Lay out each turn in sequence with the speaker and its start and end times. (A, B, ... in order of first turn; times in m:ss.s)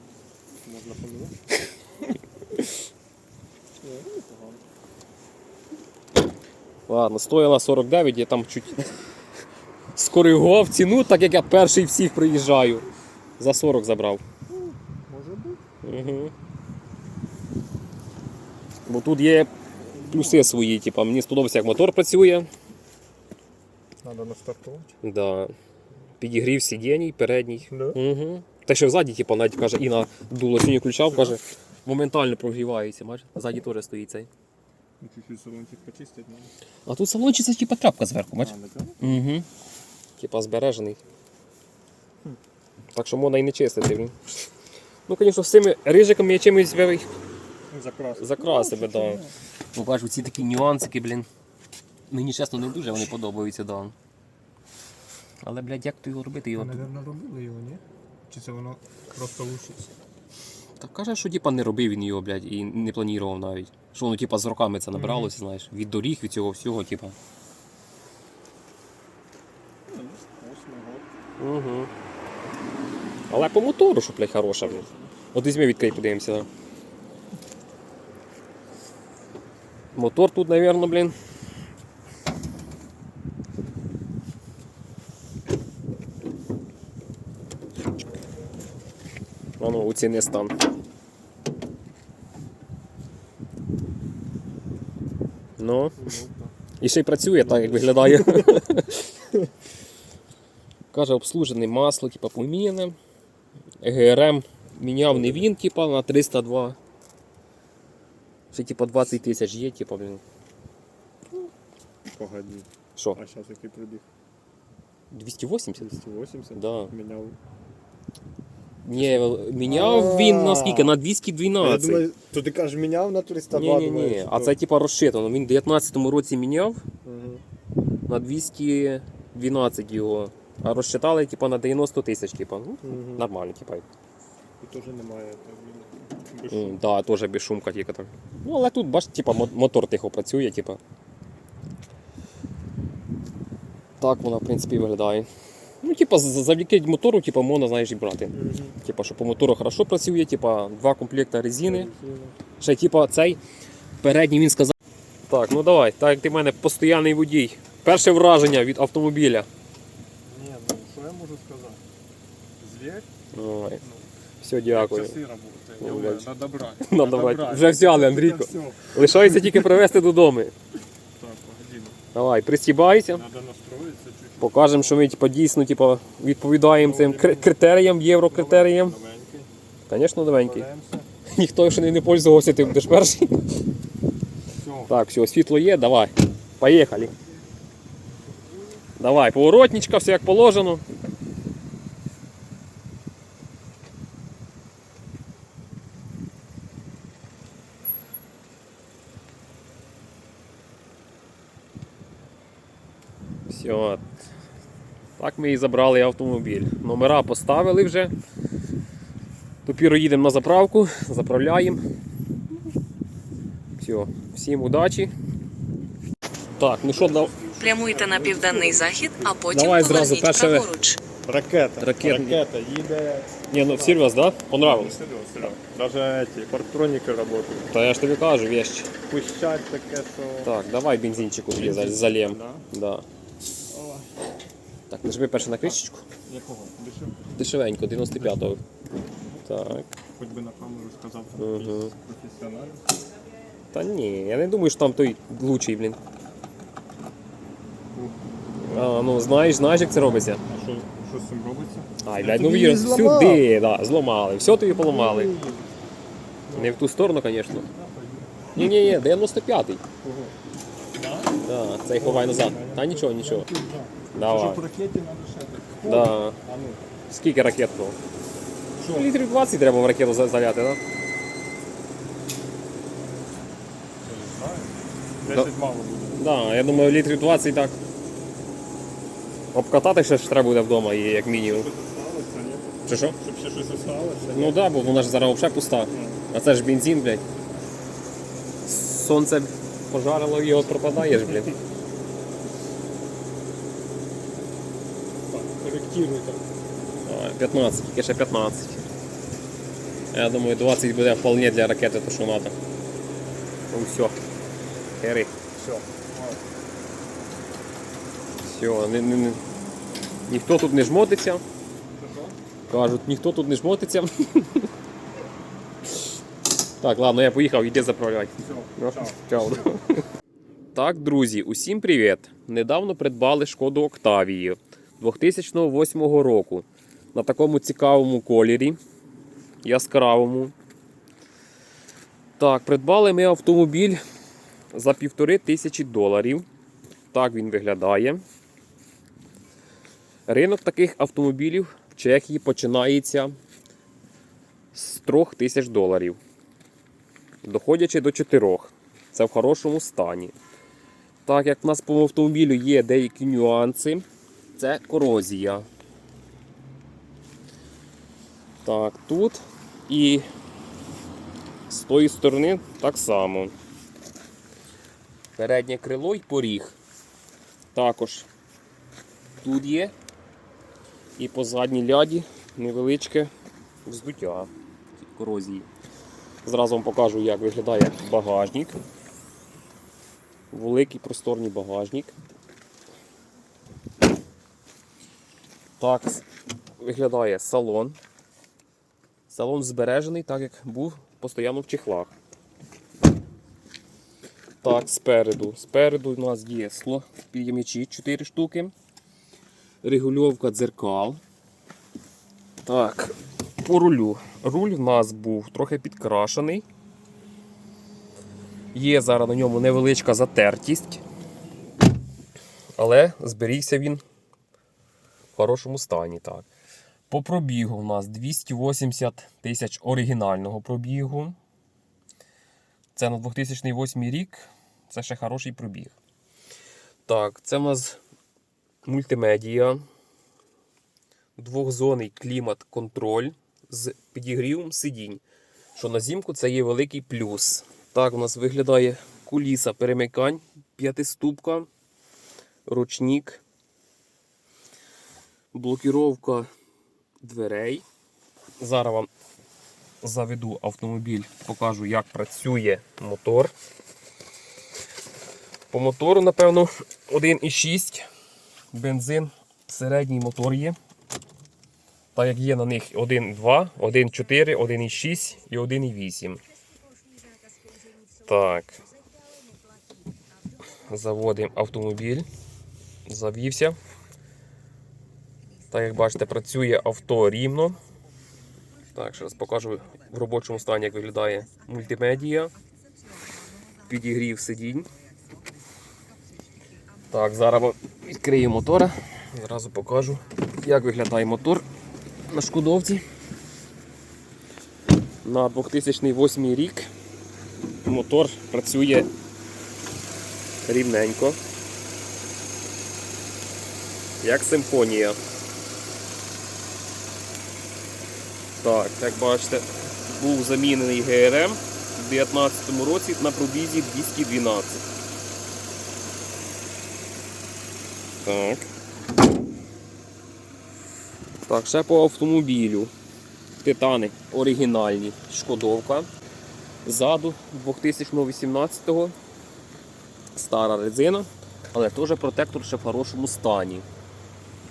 0:00.6-0:01.4 A
0:03.8-0:04.6 A
0:06.9-0:08.9 B
0:10.0-0:12.9 B
0:13.4-0:14.2 B
0:14.5-0:15.6 A
0:15.8-0:16.3 B
0:18.9-0:19.5 B
0:19.9-0:20.5 A
0:20.1-0:22.5 B
0:24.0-0:25.0 A
0:25.0-0:25.5 B
0:26.2-0:34.3 B
0:27.7-0:28.0 A
0:31.0-0:31.4 A
0:35.0-0:36.5 A
0:36.9-0:39.5 B
0:38.4-0:39.0 A
0:40.2-0:41.0 B
0:42.9-0:44.2 B
0:45.1-0:47.1 B
0:47.7-0:49.3 A
0:48.2-0:49.2 B
0:49.8-0:51.3 B
0:52.1-0:54.0 B
0:55.4-0:56.8 B
0:56.6-0:59.9 A
1:00.8-1:07.2 B
1:04.9-1:05.3 A
1:09.9-1:11.1 A
1:11.4-1:11.9 B
1:13.3-1:16.5 B
1:14.6-1:15.1 A
1:19.9-1:21.2 B
1:29.6-1:30.6 B
1:35.6-1:36.0 B
1:36.0-1:36.6 A
1:36.8-1:39.0 B
1:37.4-1:38.6 A
1:40.9-1:43.0 B
1:43.8-1:46.8 B
1:45.1-1:45.5 A
1:48.5-1:50.2 B
1:52.1-1:54.0 A
1:55.1-1:55.9 B
1:55.8-1:57.4 A
1:56.5-1:56.9 B
1:58.8-2:02.1 B
1:59.0-2:00.9 A
2:01.6-2:04.6 A
2:03.5-2:06.8 B
2:07.0-2:07.4 A
2:08.1-2:13.9 B
2:12.8-2:13.3 A
2:14.6-2:16.8 A
2:16.5-2:20.8 B
2:24.0-2:25.3 B
2:25.8-2:31.9 B
2:28.3-2:28.8 A
2:31.6-2:32.4 A
2:32.6-2:33.4 B
2:34.0-2:34.7 B
2:35.3-2:39.5 B
2:40.3-2:41.8 A
2:42.6-2:43.1 A
2:43.3-2:43.8 B
2:43.8-2:44.1 A
2:44.4-2:45.2 B
2:44.7-2:49.7 A
2:45.8-2:46.3 B
2:46.8-2:50.5 B
2:51.2-2:52.0 A
2:52.1-2:53.2 B
2:53.1-2:55.0 A
2:54.4-2:59.0 B
2:56.8-2:57.5 A
2:58.2-2:59.5 A
2:59.9-3:00.7 B
3:00.4-3:01.1 A
3:01.3-3:03.4 B
3:04.6-3:04.9 A
3:04.9-3:07.1 B
3:08.5-3:08.8 A
3:09.0-3:10.8 B
3:23.5-3:24.1 B
3:25.2-3:28.1 B
3:29.7-3:31.8 B
3:33.8-3:35.1 B
3:36.6-3:37.4 B
3:37.0-3:39.4 A
3:37.6-3:41.0 C
3:39.5-3:40.7 B
3:41.2-3:44.0 A
3:41.8-3:42.4 B
3:43.5-3:45.0 B
3:44.6-3:47.7 A
3:47.7-3:48.9 B
3:49.1-3:50.6 A
3:50.4-3:53.0 B
3:51.2-3:52.6 A
3:53.7-3:54.1 A
3:54.9-3:56.0 B
3:55.6-3:57.2 A
3:57.4-3:58.6 B
3:58.2-3:58.5 A
3:59.4-3:59.9 B
4:00.2-4:02.8 A
4:01.4-4:01.9 B
4:03.7-4:06.0 B
4:08.6-4:10.4 B
4:10.5-4:13.4 A
4:12.0-4:15.3 B
4:14.7-4:15.7 A
4:16.5-4:16.8 A
4:16.5-4:17.7 B
4:17.7-4:18.5 A
4:18.6-4:19.8 B
4:20.0-4:20.4 A
4:21.0-4:26.8 A
4:21.4-4:23.5 B
4:24.1-4:24.6 B
4:25.8-4:26.4 B
4:27.1-4:28.0 B
4:28.8-4:29.1 A
4:28.9-4:30.8 B
4:34.0-4:36.2 A
4:36.2-4:37.8 B
4:39.5-4:41.7 B
4:41.3-4:44.6 A
4:42.9-4:43.2 B
4:44.3-4:47.2 B
4:45.9-4:46.2 A
4:48.7-4:51.5 B
4:51.1-4:51.6 A
4:55.3-4:56.4 A
4:57.0-4:58.8 B
5:00.1-5:02.6 B
5:03.7-5:04.2 B
5:05.0-5:05.3 B
5:05.6-5:06.4 A
5:08.4-5:09.4 B
5:10.3-5:11.4 B
5:12.0-5:12.4 A
5:12.7-5:14.7 B
5:16.8-5:19.9 B
5:18.4-5:19.8 A
5:20.7-5:28.8 B
5:29.6-5:30.5 B
5:32.4-5:34.0 B
5:34.7-5:36.5 B
5:37.1-5:38.2 B
5:40.3-5:43.4 B
5:44.7-5:46.2 B
5:47.4-5:50.3 B
5:51.3-5:54.0 B
5:54.6-5:55.7 B
5:58.6-6:00.3 B
6:01.7-6:03.5 B
6:05.4-6:06.8 B
6:07.7-6:08.3 B
6:09.4-6:09.9 B
6:11.2-6:13.3 B
6:13.9-6:14.5 B
6:15.0-6:15.7 B
6:16.4-6:18.8 B
6:20.5-6:22.1 B
6:25.8-6:26.2 B
6:26.8-6:28.0 B
6:29.3-6:32.1 B
6:34.6-6:38.7 B
6:39.8-6:41.2 B
6:42.6-6:46.6 B
6:48.7-6:51.0 B
6:52.8-6:54.0 B
6:55.4-6:56.5 B
6:57.1-7:01.4 B
7:02.9-7:05.9 B
7:07.1-7:08.0 B
7:08.8-7:09.8 B
7:11.4-7:15.2 B
7:15.8-7:21.7 B
7:22.7-7:23.4 B
7:25.5-7:26.5 B
7:27.2-7:27.8 B
7:28.6-7:29.1 B
7:30.0-7:33.5 B
7:35.7-7:38.1 B
7:38.7-7:40.8 B
7:42.2-7:46.4 B
7:48.2-7:48.8 B
7:50.9-7:52.3 B
7:53.1-7:53.8 B
7:55.7-7:57.8 B
7:58.9-8:02.5 B
8:03.9-8:04.9 B
8:07.1-8:11.6 B
8:12.3-8:13.0 B
8:15.2-8:16.9 B
8:17.8-8:19.1 B
8:20.6-8:21.4 B
8:24.2-8:25.2 B
8:28.6-8:34.8 B
8:38.2-8:38.7 B
8:41.5-8:42.9 B
8:43.6-8:46.1 B
8:46.8-8:49.2 B
8:50.4-8:53.9 B